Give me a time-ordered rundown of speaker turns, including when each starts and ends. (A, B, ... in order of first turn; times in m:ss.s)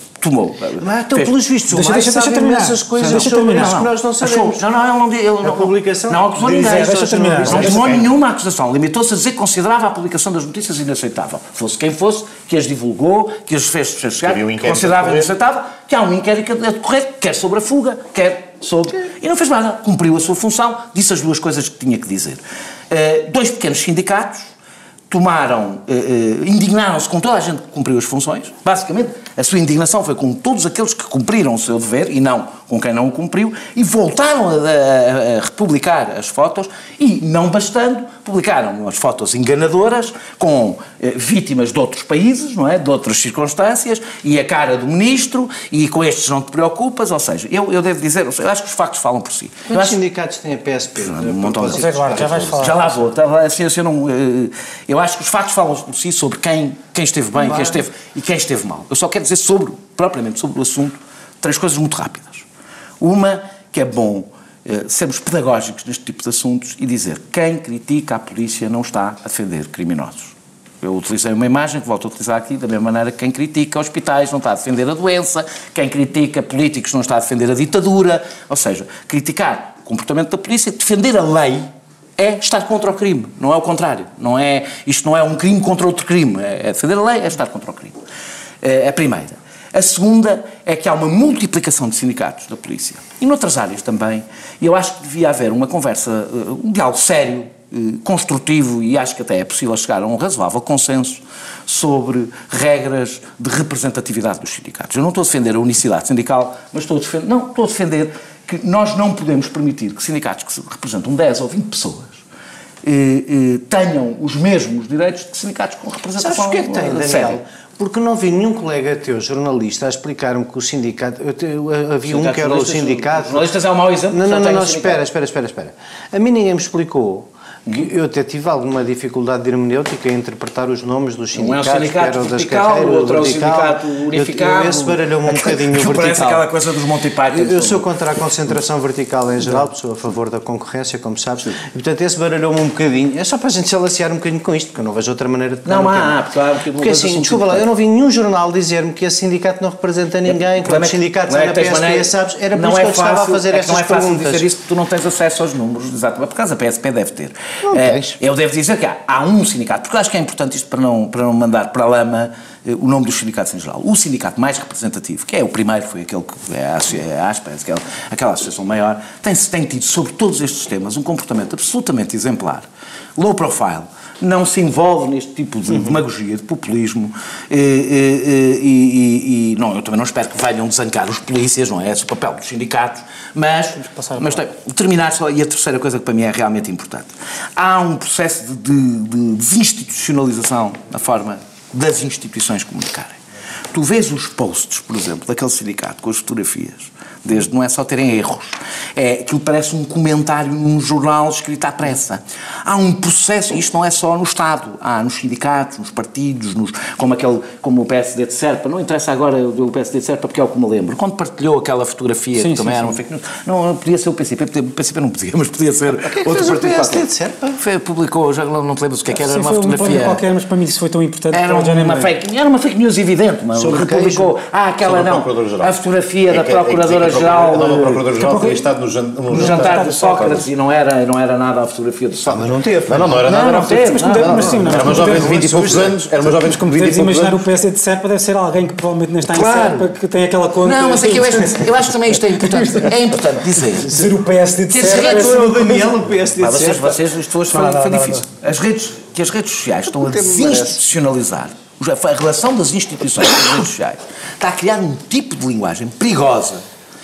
0:00.2-0:01.3 A
0:00.8-0:04.6 B
0:01.7-0:03.7 C
0:03.0-0:24.5 A
0:05.4-0:08.0 B
0:06.5-0:07.9 C
0:07.7-0:08.0 D
0:14.2-0:15.3 D
0:25.1-0:50.0 A
0:49.7-0:53.0 B
0:51.0-1:02.4 A
0:51.7-0:52.8 C
0:57.4-0:57.8 B
1:03.0-1:21.7 A
1:22.2-1:28.0 A
1:28.6-1:52.2 A
1:52.8-1:57.4 A
1:56.2-2:03.5 B
2:02.0-2:05.0 A
2:04.1-2:16.4 B
2:11.3-2:17.8 A
2:17.3-2:26.2 B
2:19.4-2:19.7 A
2:25.6-2:27.6 A
2:26.7-2:34.4 B
2:30.2-2:52.6 A
2:37.6-2:38.2 B
2:53.2-3:13.2 A
3:03.7-3:04.4 C
3:13.7-3:40.2 A
3:32.4-3:33.0 C
3:36.1-3:37.6 B
3:39.1-3:42.1 C
3:41.3-3:48.6 A
3:43.5-3:44.3 B
3:44.8-3:45.7 D
3:46.3-3:50.5 D
3:49.3-3:50.3 C
3:49.3-3:52.6 A
3:52.2-3:56.0 B
3:52.9-3:57.4 D
3:53.2-3:55.7 A
3:53.8-3:55.5 C
3:56.5-4:01.7 C
3:59.3-3:59.9 A
4:00.6-4:04.0 A
4:02.3-4:02.9 C
4:03.8-4:04.1 B
4:03.9-4:05.9 C
4:04.7-4:05.7 A
4:04.7-4:07.0 B
4:06.4-4:16.6 A
4:07.5-4:08.2 C
4:09.9-4:10.8 B